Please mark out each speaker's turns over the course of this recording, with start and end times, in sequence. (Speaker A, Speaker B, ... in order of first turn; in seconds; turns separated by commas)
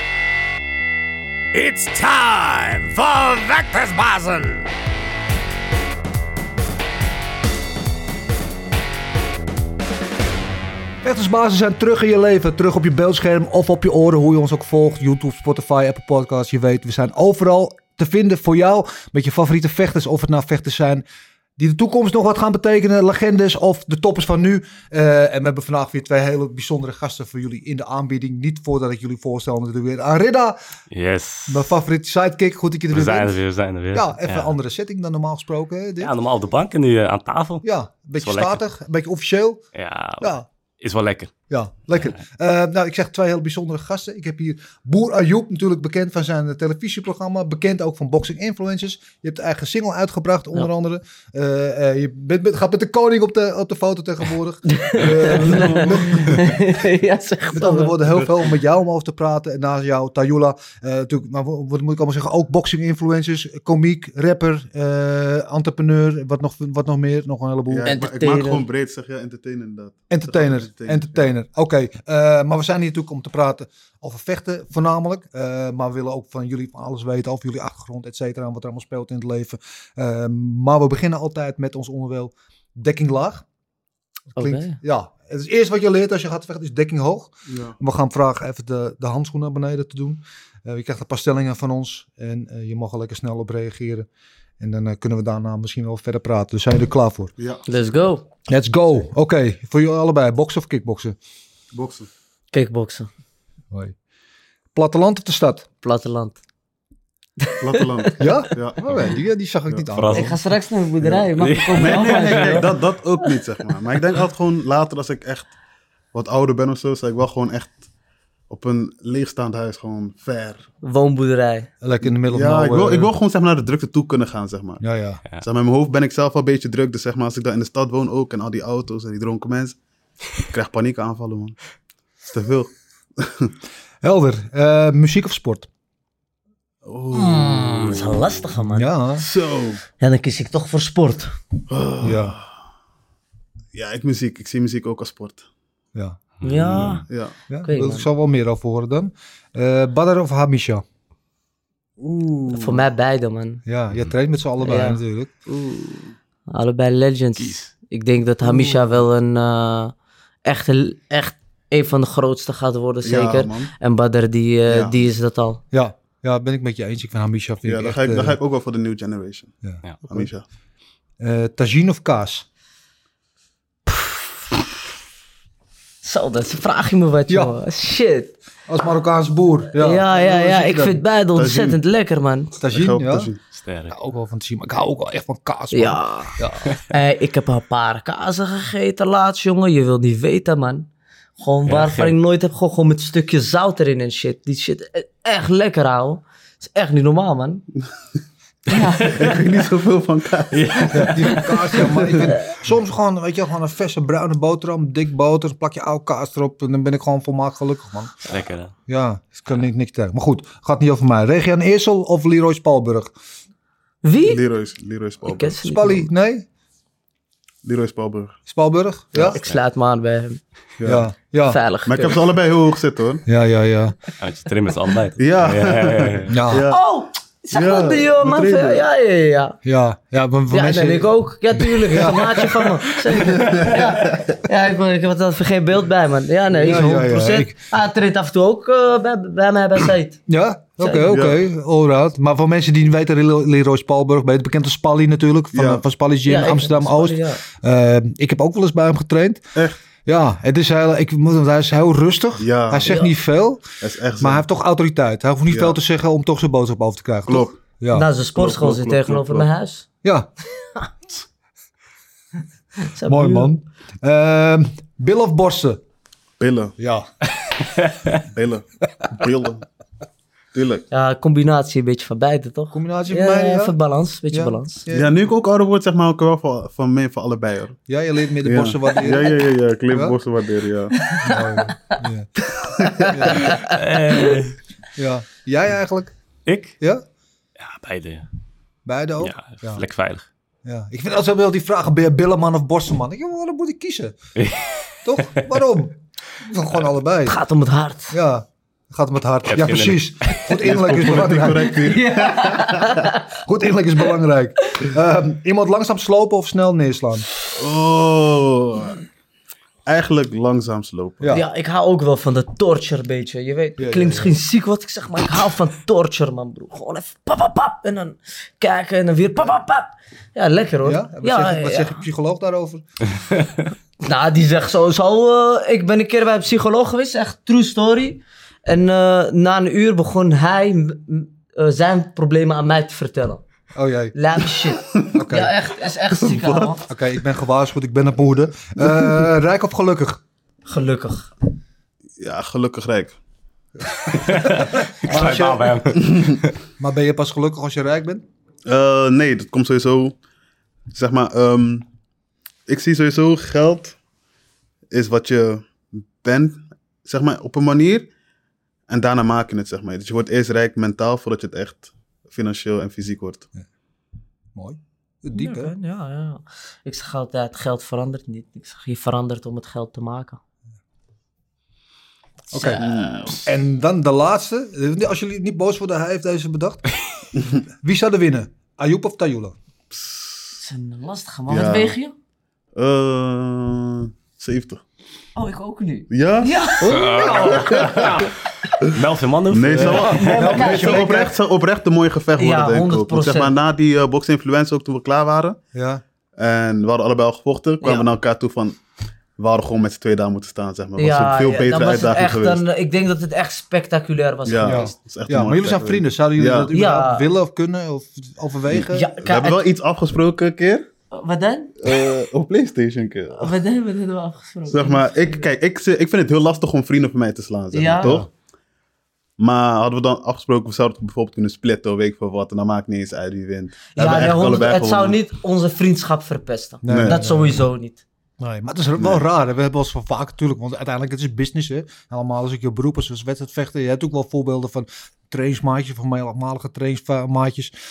Speaker A: 1.5-4.7, Speaker B: 11.0-21.0, Speaker B: 21.6-30.6, Speaker C: 30.9-31.7, Speaker B: 31.5-33.4, Speaker C: 32.9-34.5, Speaker B: 33.9-36.1, Speaker C: 36.0-37.7, Speaker B: 37.6-39.6, Speaker C: 38.2-38.6, Speaker C: 39.8-41.3, Speaker B: 40.2-40.5, Speaker B: 41.5-56.6, Speaker D: 54.7-58.0, Speaker E: 55.4-56.2, Speaker B: 57.5-67.9, Speaker E: 67.7-71.2, Speaker D: 67.9-68.6, Speaker B: 70.1-83.4, Speaker D: 84.3-84.8, Speaker B: 84.4-94.1, Speaker E: 87.5-87.8, Speaker B: 94.6-97.3, Speaker D: 97.7-98.2, Speaker B: 98.5-101.2, Speaker E: 101.7-102.1, Speaker D: 102.5-103.1, Speaker B: 104.8-105.6, Speaker D: 105.8-106.4, Speaker D: 107.4-107.9, Speaker E: 107.6-108.9, Speaker B: 108.2-110.4, Speaker C: 108.9-109.1, Speaker C: 110.0-110.4, Speaker D: 110.1-112.8, Speaker C: 111.4-112.6, Speaker E: 111.8-115.5, Speaker E: 116.1-117.8, Speaker E: 118.5-120.6, Speaker D: 120.8-121.7, Speaker B: 121.8-123.1, Speaker E: 122.3-124.8, Speaker B: 124.8-125.2, Speaker E: 125.4-129.8, Speaker E: 130.4-131.7, Speaker E: 132.2-133.5, Speaker B: 134.0-135.7, Speaker E: 136.8-138.2, Speaker D: 137.1-138.9, Speaker B: 138.8-139.2, Speaker E: 139.2-139.8, Speaker D: 140.0-141.3, Speaker E: 141.7-142.4, Speaker B: 142.0-142.4, Speaker E: 143.7-145.4, Speaker C: 146.4-147.0, Speaker D: 146.4-147.0, Speaker E: 147.1-147.3, Speaker B: 147.5-150.8, Speaker D: 147.6-148.1, Speaker E: 152.0-152.9, Speaker D: 152.5-153.6, Speaker B: 153.7-155.3, Speaker D: 154.6-155.0, Speaker E: 155.5-156.1, Speaker D: 156.5-159.9, Speaker C: 157.4-157.7, Speaker E: 158.5-158.9, Speaker D: 160.5-165.6, Speaker E: 163.0-163.7, Speaker E: 164.7-165.1, Speaker B: 165.7-168.4, Speaker E: 167.7-169.5, Speaker B: 169.6-170.3, Speaker E: 170.1-170.4, Speaker B: 171.2-172.4, Speaker D: 176.0-178.3, Speaker B: 177.3-177.5, Speaker B: 178.7-181.0, Speaker D: 179.7-182.6, Speaker E: 181.4-181.8, Speaker B: 182.6-183.3, Speaker E: 182.7-183.4, Speaker C: 183.5-183.9, Speaker B: 183.9-186.7, Speaker D: 185.7-190.9, Speaker D: 191.4-197.7, Speaker C: 191.7-192.1, Speaker D: 198.7-199.3, Speaker E: 199.1-202.3, Speaker C: 200.5-201.9, Speaker B: 200.9-208.2, Speaker C: 208.3-208.7, Speaker B: 208.9-213.1, Speaker D: 214.0-214.4, Speaker E: 214.3-215.6, Speaker D: 215.2-216.1, Speaker B: 215.6-216.4, Speaker E: 217.6-218.4, Speaker B: 218.5-219.4, Speaker E: 219.1-219.4, Speaker D: 219.3-220.4, Speaker E: 220.8-221.1, Speaker B: 220.8-221.6, Speaker D: 221.5-222.2, Speaker E: 221.9-223.2, Speaker B: 223.3-223.9, Speaker C: 224.2-226.4, Speaker E: 225.2-226.8, Speaker B: 226.3-226.7, Speaker D: 226.7-229.6, Speaker E: 227.5-228.8, Speaker B: 229.6-231.1, Speaker D: 230.5-240.2, Speaker B: 231.8-232.8, Speaker E: 233.3-234.0, Speaker B: 236.6-237.6, Speaker B: 240.3-249.5, Speaker D: 240.8-241.1, Speaker E: 241.1-241.4, Speaker E: 245.5-245.8, Speaker D: 246.3-247.4, Speaker B: 250.1-253.6, Speaker E: 252.4-252.9, Speaker D: 252.8-253.1, Speaker E: 253.8-254.4, Speaker B: 254.2-258.1, Speaker E: 255.5-255.8, Speaker E: 257.3-257.6, Speaker D: 257.9-259.9, Speaker E: 258.4-259.5, Speaker B: 260.0-260.3, Speaker D: 262.8-263.5, Speaker B: 263.1-265.8, Speaker E: 266.4-266.8, Speaker B: 266.8-267.1, Speaker E: 268.2-269.6, Speaker E: 270.5-270.9, Speaker D: 270.9-274.9, Speaker B: 272.7-273.8, Speaker B: 274.3-275.1, Speaker E: 274.9-277.8, Speaker B: 277.9-280.1, Speaker E: 278.4-281.0, Speaker D: 281.0-282.0, Speaker B: 281.2-283.6, Speaker D: 282.9-284.4, Speaker C: 283.7-284.6, Speaker B: 285.0-286.1, Speaker C: 286.5-286.8, Speaker C: 287.6-288.3, Speaker B: 288.9-289.8, Speaker C: 289.2-290.2, Speaker B: 290.6-294.2, Speaker C: 294.4-294.9, Speaker B: 295.1-297.4, Speaker D: 297.3-298.1, Speaker B: 298.1-301.9, Speaker C: 299.5-300.6, Speaker E: 300.6-303.0, Speaker D: 301.8-303.2, Speaker B: 303.3-307.3, Speaker E: 307.6-309.0, Speaker E: 309.9-311.4, Speaker B: 311.2-311.5, Speaker D: 311.3-322.0, Speaker B: 313.8-314.3, Speaker B: 320.8-322.8, Speaker D: 324.0-333.4, Speaker B: 333.8-334.1, Speaker D: 334.1-336.9, Speaker B: 335.1-335.5, Speaker E: 336.1-336.7, Speaker B: 336.9-340.2, Speaker D: 340.7-341.3, Speaker E: 342.2-343.2, Speaker C: 344.1-346.5, Speaker B: 344.3-346.0, Speaker B: 346.8-348.2, Speaker E: 348.7-350.2, Speaker E: 350.9-351.9, Speaker E: 352.7-354.0, Speaker E: 354.9-358.1, Speaker E: 358.9-363.4, Speaker B: 364.6-365.7, Speaker D: 365.3-370.4, Speaker B: 372.5-372.9, Speaker D: 372.5-372.9, Speaker E: 372.8-373.4, Speaker B: 373.4-376.9, Speaker B: 377.8-379.5, Speaker E: 379.9-380.6, Speaker D: 380.6-382.1, Speaker E: 381.5-381.9, Speaker E: 382.8-384.8, Speaker D: 385.4-387.2, Speaker E: 386.1-388.3, Speaker C: 386.9-388.2, Speaker B: 387.1-388.3, Speaker C: 388.8-390.4, Speaker E: 389.5-395.6, Speaker D: 389.8-391.4, Speaker B: 390.3-391.3, Speaker D: 392.4-393.5, Speaker B: 395.7-396.0, Speaker E: 396.4-398.8, Speaker D: 397.8-398.1, Speaker E: 399.4-402.6, Speaker D: 401.0-404.9, Speaker E: 404.5-406.7, Speaker B: 404.6-409.1, Speaker D: 406.7-407.3, Speaker E: 408.7-410.9, Speaker D: 408.9-409.6, Speaker D: 411.1-411.8, Speaker E: 411.8-413.5, Speaker D: 413.4-415.5, Speaker E: 414.7-418.3, Speaker D: 417.7-418.2, Speaker B: 418.0-418.3, Speaker E: 419.4-425.2, Speaker D: 423.9-428.0, Speaker B: 426.8-427.6, Speaker E: 426.9-427.2, Speaker B: 428.4-437.7